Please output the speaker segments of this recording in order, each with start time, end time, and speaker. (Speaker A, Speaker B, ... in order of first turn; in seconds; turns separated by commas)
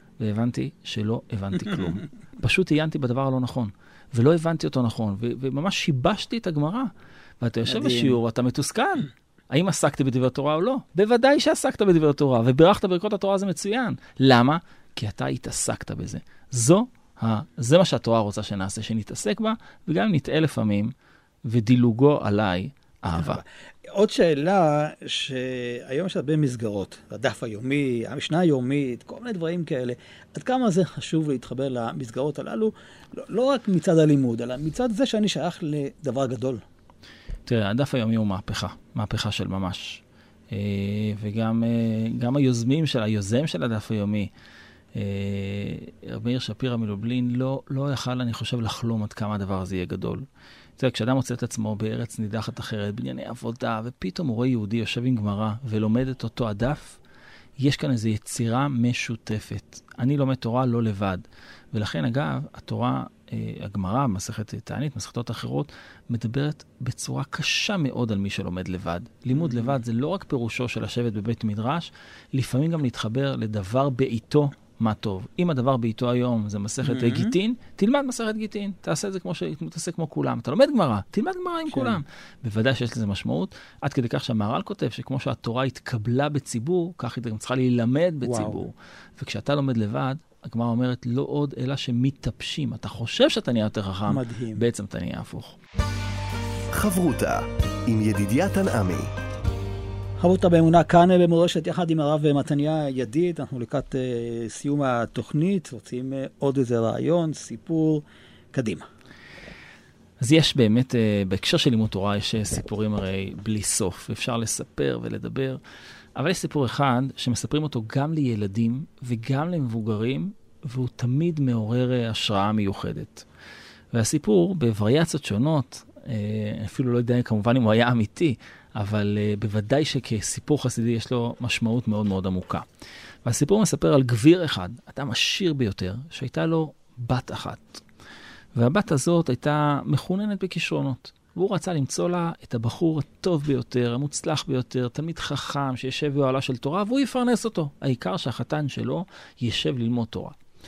Speaker A: 0.2-20.9, Speaker B: 7.7-8.2, Speaker A: 21.4-23.4, Speaker B: 23.1-36.6, Speaker A: 37.5-44.3, Speaker A: 44.9-50.2, Speaker A: 50.8-57.0, Speaker A: 57.6-95.6, Speaker B: 69.3-69.8, Speaker B: 76.8-77.3, Speaker B: 81.7-82.0, Speaker B: 88.2-88.6, Speaker B: 94.1-94.6, Speaker C: 96.7-99.1, Speaker B: 100.2-108.8, Speaker A: 110.2-115.6, Speaker A: 116.2-123.2, Speaker A: 123.9-132.6, Speaker A: 133.2-137.8, Speaker A: 138.5-150.3